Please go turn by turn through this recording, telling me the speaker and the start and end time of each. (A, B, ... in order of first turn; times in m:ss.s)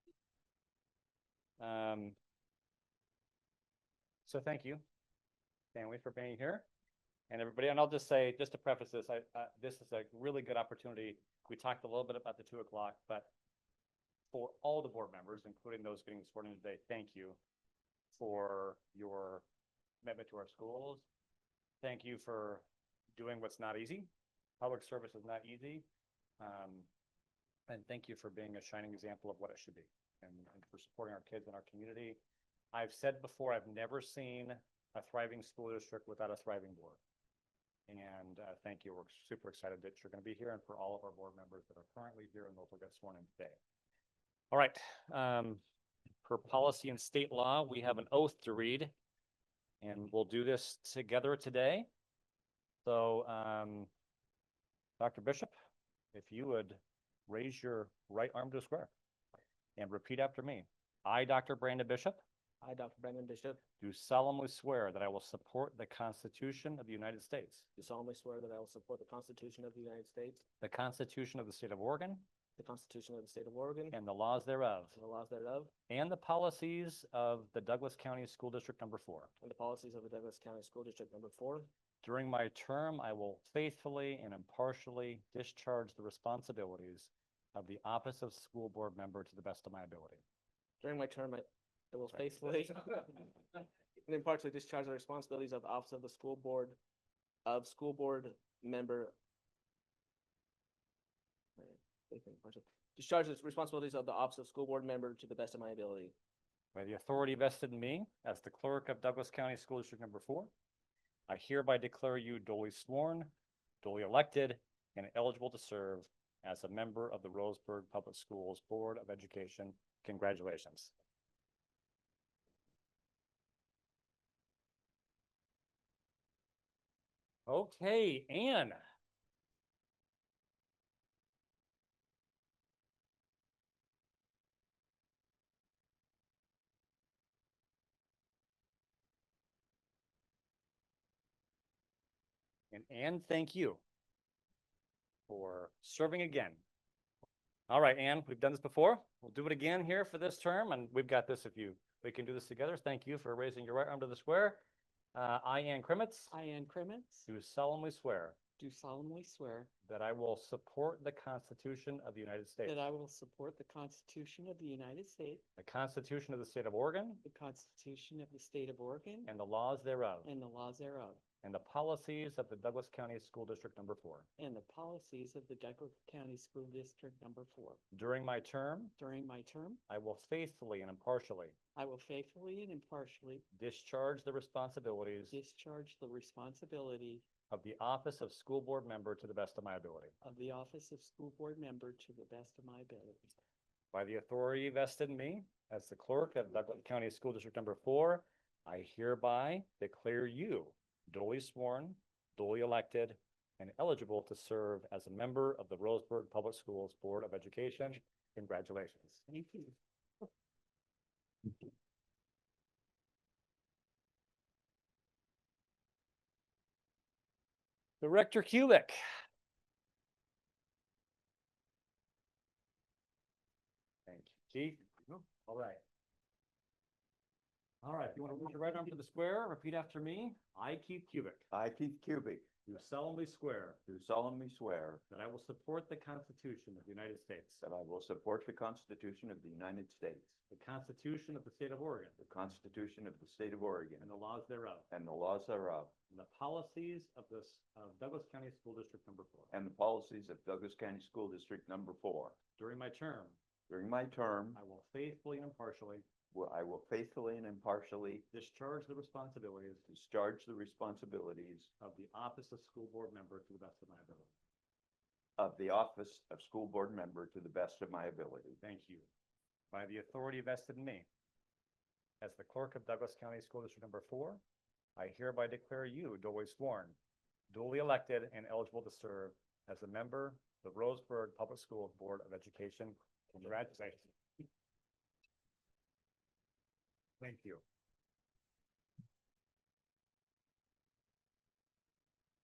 0:01.6-0:02.2 A
0:04.2-0:04.8 A
0:05.7-0:06.6 A
0:07.3-0:13.3 A
0:14.3-0:17.4 A
0:18.1-0:19.4 A
0:20.0-0:21.0 A
0:21.8-0:22.6 A
0:23.2-0:24.1 A
0:24.6-0:25.8 A
0:26.4-0:26.9 A
0:27.7-0:32.2 A
0:32.7-0:37.0 A
0:37.9-0:43.6 A
0:44.5-0:45.6 A
0:46.2-0:48.9 A
0:49.8-0:51.9 A
0:52.8-0:53.9 A
0:55.0-0:55.5 A
0:56.1-0:58.9 A
0:59.8-1:02.2 A
1:02.6-1:03.6 B
1:03.8-1:07.6 A
1:07.8-1:10.4 B
1:10.6-1:12.2 A
1:12.6-1:13.9 B
1:13.9-1:15.0 A
1:14.9-1:15.7 B
1:15.9-1:19.3 A
1:19.4-1:21.7 B
1:22.0-1:30.2 A
1:30.8-1:33.4 B
1:34.0-1:36.8 B
1:37.4-1:39.1 B
1:41.6-1:46.1 B
1:46.7-1:50.5 A
1:51.3-1:53.3 A
1:53.8-2:00.9 A
2:07.5-2:08.8 A
2:22.7-2:23.8 A
2:25.3-2:26.6 A
2:27.7-2:34.6 A
2:35.1-2:36.3 A
2:36.3-2:37.3 C
2:37.3-2:38.4 A
2:38.6-2:39.7 C
2:39.8-2:42.8 A
2:42.6-2:45.4 C
2:45.6-2:47.2 A
2:47.2-2:49.3 C
2:49.2-2:50.3 A
2:50.2-2:51.2 C
2:51.4-2:54.3 A
2:54.4-2:57.8 C
2:57.9-2:58.9 A
2:59.0-2:59.8 C
2:59.9-3:01.5 A
3:01.8-3:03.4 C
3:03.5-3:05.4 A
3:05.3-3:07.2 C
3:07.5-3:10.1 A
3:10.2-3:13.4 C
3:13.9-3:29.7 A
3:38.0-3:39.0 A
3:44.1-3:45.8 A
3:47.8-3:51.4 A
3:51.5-3:52.5 D
3:52.6-3:53.8 A
3:53.8-3:55.0 D
3:55.1-3:57.6 A
3:57.6-4:00.3 D
4:00.5-4:02.2 A
4:02.2-4:04.1 D
4:04.0-4:04.9 A
4:04.9-4:05.9 D
4:06.1-4:09.5 A
4:09.5-4:12.4 D
4:12.6-4:13.4 A
4:13.7-4:14.6 D
4:14.5-4:16.0 A
4:16.3-4:18.2 D
4:18.3-4:19.8 A
4:19.9-4:21.7 D
4:21.8-4:24.3 A
4:25.4-4:28.6 D
4:28.6-4:29.1 A
4:29.7-4:31.0 A
4:32.2-4:34.4 A
4:35.0-4:37.0 A
4:37.5-4:44.1 A
4:47.2-4:47.6 A